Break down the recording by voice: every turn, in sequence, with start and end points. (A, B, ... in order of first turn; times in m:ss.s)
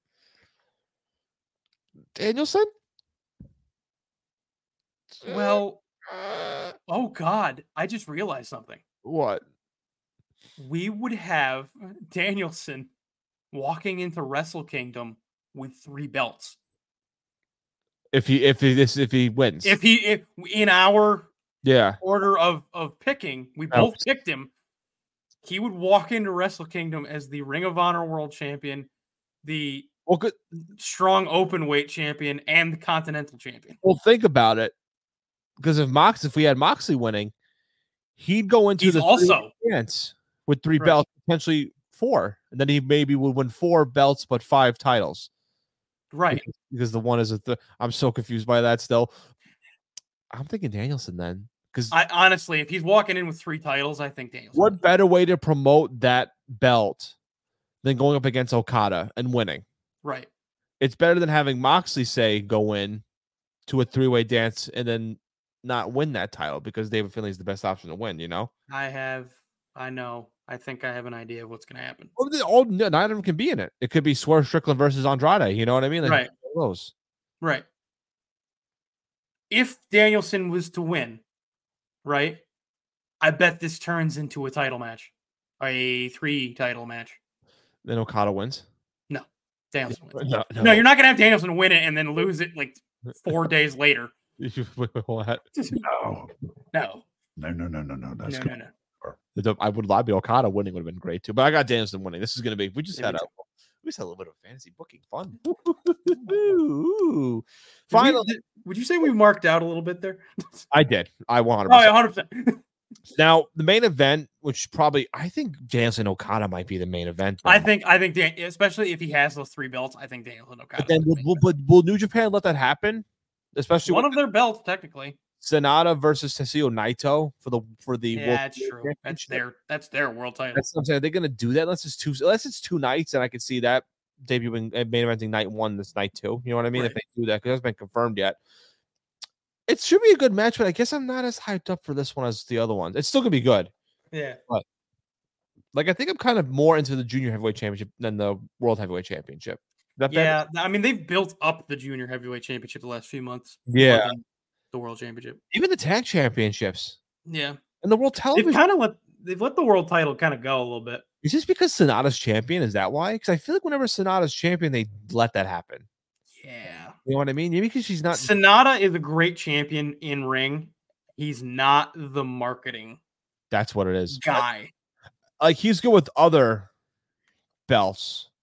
0:02.1-0:02.7 A
0:05.1-0:06.7 A
0:05.2-0:05.8 B
0:06.9-0:08.8 B
0:09.0-0:09.4 A
0:10.6-0:12.9 B
0:13.5-0:16.6 B
0:18.1-0:19.8 A
0:19.6-0:21.3 B
0:21.6-0:22.0 A
0:22.0-0:24.5 B
0:23.7-0:24.0 A
0:25.4-0:28.9 B
0:29.4-0:29.9 B
0:30.1-0:30.3 A
0:30.7-0:33.8 B
0:33.8-0:34.7 A
0:35.6-0:37.3 A
0:38.2-0:45.3 A
0:38.8-0:39.5 B
0:46.1-0:46.4 B
0:46.3-0:49.1 A
0:50.3-0:51.9 A
0:51.9-0:54.8 B
0:54.5-0:57.1 A
0:57.8-0:59.6 A
1:00.0-1:00.3 B
1:00.8-1:03.0 A
1:03.7-1:08.5 A
1:08.7-1:12.1 B
1:12.2-1:16.9 A
1:16.0-1:16.3 B
1:19.5-1:21.2 B
1:22.0-1:22.4 B
1:23.2-1:27.2 B
1:27.8-1:28.6 A
1:29.1-1:34.1 B
1:30.1-1:30.8 A
1:34.4-1:35.4 A
1:35.6-1:35.8 B
1:35.8-1:36.3 C
1:36.7-1:37.0 B
1:37.4-1:39.2 C
1:38.2-1:38.7 B
1:39.3-1:48.3 A
1:42.9-1:43.3 B
1:47.9-1:50.7 B
1:50.7-1:51.9 A
1:51.7-1:52.6 B
1:53.1-1:57.7 A
1:57.4-2:01.4 B
2:00.8-2:04.2 A
2:03.8-2:05.2 B
2:05.4-2:09.4 A
2:08.1-2:10.6 B
2:10.5-2:18.4 A
2:19.7-2:23.7 A
2:24.1-2:24.4 B
2:25.7-2:30.4 A
2:30.1-2:35.4 B
2:33.7-2:34.1 A
2:35.5-2:37.0 A
2:37.2-2:37.6 B
2:37.8-2:38.6 A
2:38.3-2:41.0 B
2:41.2-2:45.8 A
2:46.4-2:47.0 B
2:47.0-2:48.3 A
2:48.1-2:53.0 B
2:53.5-2:54.4 A
2:54.1-2:54.7 B
2:55.4-2:56.7 A
2:57.7-2:58.3 A